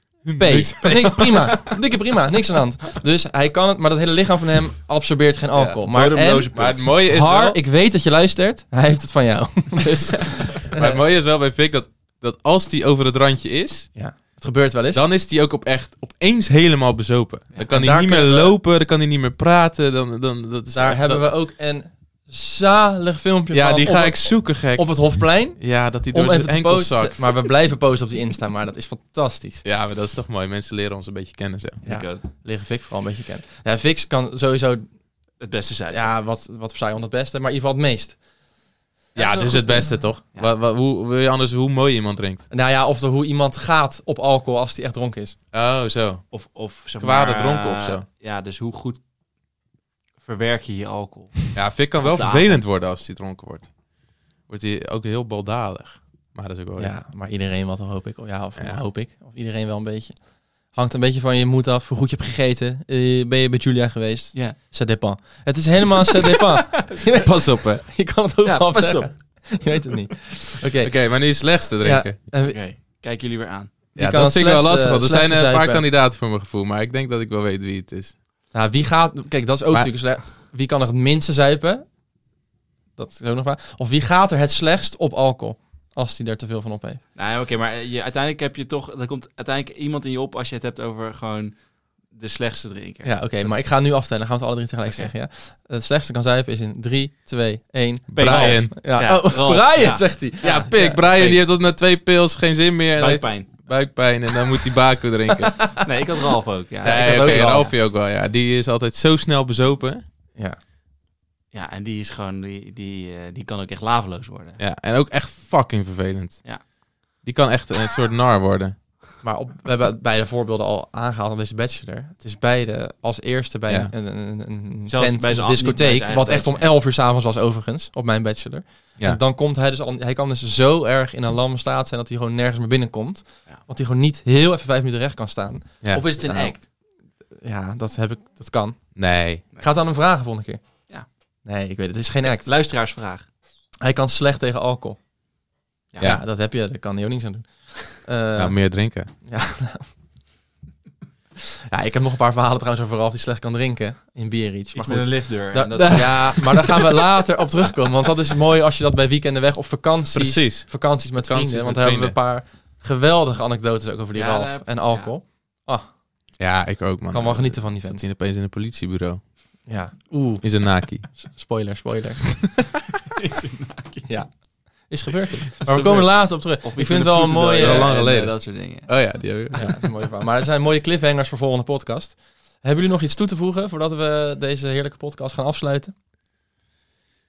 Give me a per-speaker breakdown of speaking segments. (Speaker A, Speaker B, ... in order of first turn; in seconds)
Speaker A: 0.2-1.8, 5.5-7.6, 10.7-13.9, 14.9-21.3, 23.5-27.4, 29.6-31.8, 39.1-42.4, 45.5-46.2, 47.0-48.0, 51.5-53.7, 54.5-56.9, 67.2-67.8, 70.8-72.2, 74.0-78.2, 98.1-98.7, 100.4-105.7, 106.8-110.0, 114.6-118.8, 138.9-139.4, 148.4-149.1, 155.8-156.7, 160.1-162.2, 166.4-169.2, 170.4-171.2, 177.6-179.6
Speaker B: 0.4-11.0, 13.9-15.0, 17.7-18.5, 20.7-29.6, 31.8-34.9, 35.9-38.2, 42.5-45.4, 56.8-60.1, 60.7-71.0, 71.8-72.6, 74.0-75.8, 78.5-81.8, 83.0-87.0, 93.0-101.0, 106.8-107.7, 119.2-136.7, 137.4-139.0, 139.6-140.8, 141.4-142.5, 143.8-145.0, 146.0-148.6, 149.2-149.9, 151.7-165.8, 167.1-168.1, 169.7-172.6, 174.1-177.9, 179.6-185.9
Speaker C: 5.9-6.9, 31.8-32.2, 35.4-36.1, 39.1-40.5, 46.3-49.0, 50.2-52.7, 66.1-66.6, 68.4-69.1, 72.4-73.7, 87.1-91.5, 92.1-93.6, 94.8-95.1, 98.1-101.4, 103.0-103.7, 105.8-107.7, 111.5-114.6, 124.9-126.7, 135.9-136.6, 142.2-143.2, 154.7-156.5, 164.1-165.1, 173.2-174.1, 175.6-179.7